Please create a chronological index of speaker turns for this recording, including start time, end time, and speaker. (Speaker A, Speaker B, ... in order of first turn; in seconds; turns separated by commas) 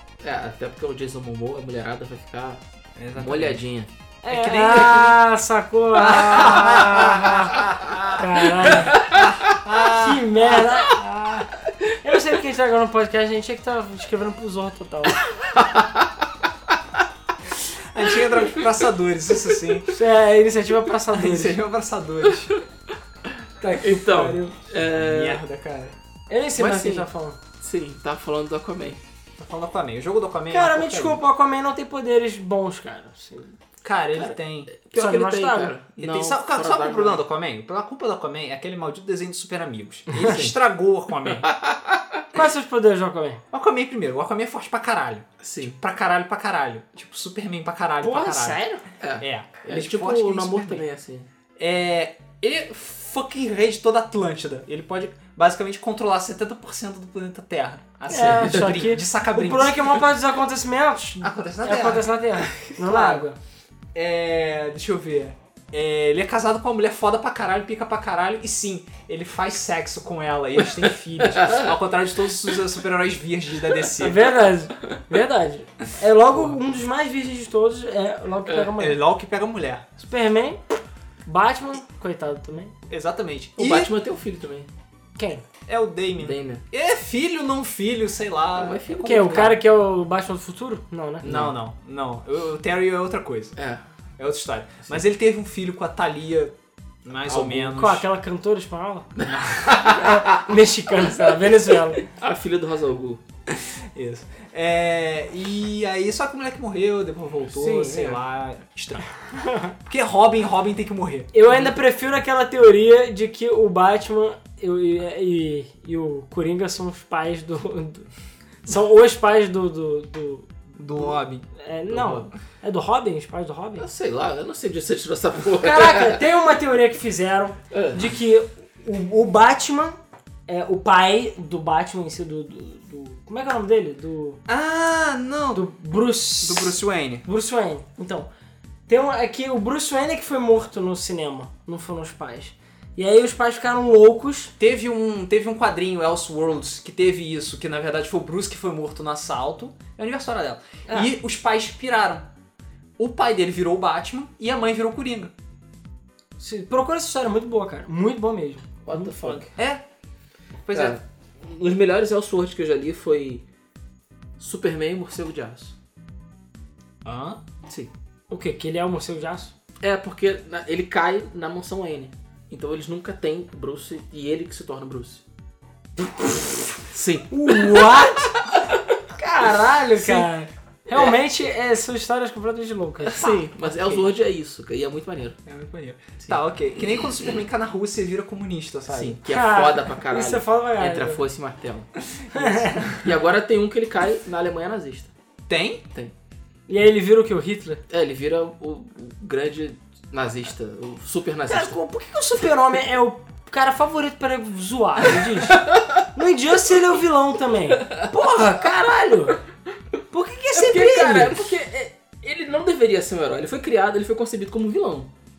Speaker A: 0.2-2.6, Speaker B: 3.0-3.6, Speaker A: 3.1-3.9, Speaker C: 4.2-9.1, Speaker B: 4.3-5.2, Speaker B: 5.9-10.2, Speaker A: 8.7-9.2, Speaker C: 9.9-15.2, Speaker A: 15.4-16.2, Speaker B: 17.7-19.9, Speaker C: 19.9-21.6, Speaker B: 21.1-22.6, Speaker C: 23.6-24.5, Speaker A: 23.8-25.4, Speaker B: 24.0-24.4, Speaker B: 24.9-25.9, Speaker C: 26.3-27.4, Speaker A: 26.6-27.1, Speaker A: 27.6-29.0, Speaker B: 29.4-31.2, Speaker C: 30.5-33.5, Speaker B: 33.8-34.7, Speaker A: 34.1-37.2, Speaker C: 35.0-35.8, Speaker B: 36.0-41.5, Speaker A: 40.1-40.5, Speaker A: 41.2-42.2, Speaker C: 42.3-43.4, Speaker B: 43.5-48.6, Speaker A: 45.4-45.8, Speaker C: 48.0-48.8, Speaker A: 49.0-51.3, Speaker B: 49.2-50.8, Speaker B: 51.5-60.0, Speaker C: 58.1-63.4, Speaker A: 58.1-58.8, Speaker B: 61.2-62.1, Speaker B: 62.7-63.2, Speaker B: 63.9-74.2, Speaker A: 71.3-71.7, Speaker C: 74.0-79.0, Speaker B: 78.8-79.8, Speaker C: 80.0-80.6, Speaker C: 81.2-82.7, Speaker B: 82.9-83.9, Speaker A: 83.6-84.7, Speaker C: 85.2-85.4, Speaker B: 85.7-89.5, Speaker A: 86.2-86.6, Speaker A: 88.5-89.5, Speaker C: 88.9-91.2, Speaker A: 91.2-91.5, Speaker B: 91.2-93.5, Speaker A: 93.5-93.8, Speaker B: 94.2-96.5, Speaker B: 97.0-98.1, Speaker A: 97.3-97.8, Speaker C: 97.7-99.1, Speaker A: 99.2-100.4, Speaker B: 99.3-99.8, Speaker C: 99.8-102.0, Speaker A: 101.0-103.2, Speaker B: 103.5-109.1, Speaker A: 107.5-108.2, Speaker C: 109.4-109.7, Speaker B: 109.8-111.7, Speaker C: 111.3-118.1, Speaker C: 118.6-120.5, Speaker B: 120.8-121.4, Speaker C: 121.5-123.9, Speaker A: 121.9-122.2, Speaker A: 123.8-126.2, Speaker C: 125.5-129.9, Speaker A: 127.7-128.1, Speaker C: 130.5-134.4, Speaker B: 134.5-135.7, Speaker C: 135.5-138.3, Speaker B: 136.4-137.2, Speaker C: 138.9-144.5, Speaker B: 144.6-152.3, Speaker B: 153.0-155.3, Speaker C: 156.4-158.8, Speaker A: 158.8-159.5, Speaker B: 158.9-159.8, Speaker B: 160.6-161.0, Speaker A: 160.7-163.4, Speaker A: 164.4-165.8, Speaker B: 167.0-167.4, Speaker C: 168.3-169.5, Speaker A: 169.8-175.2, Speaker C: 176.2-176.5, Speaker A: 176.9-178.1, Speaker C: 177.3-178.3, Speaker C: 179.2-183.3, Speaker A: 180.0-180.2, Speaker A: 180.9-181.2, Speaker A: 183.0-185.4, Speaker B: 183.2-184.1, Speaker B: 185.4-189.2, Speaker A: 188.9-195.1, Speaker C: 189.3-191.2, Speaker C: 192.3-193.0, Speaker B: 195.5-195.8, Speaker C: 196.7-197.8, Speaker A: 197.9-201.8, Speaker C: 201.5-209.4, Speaker A: 205.3-206.0, Speaker A: 207.8-208.1, Speaker C: 210.1-211.4, Speaker A: 210.5-215.1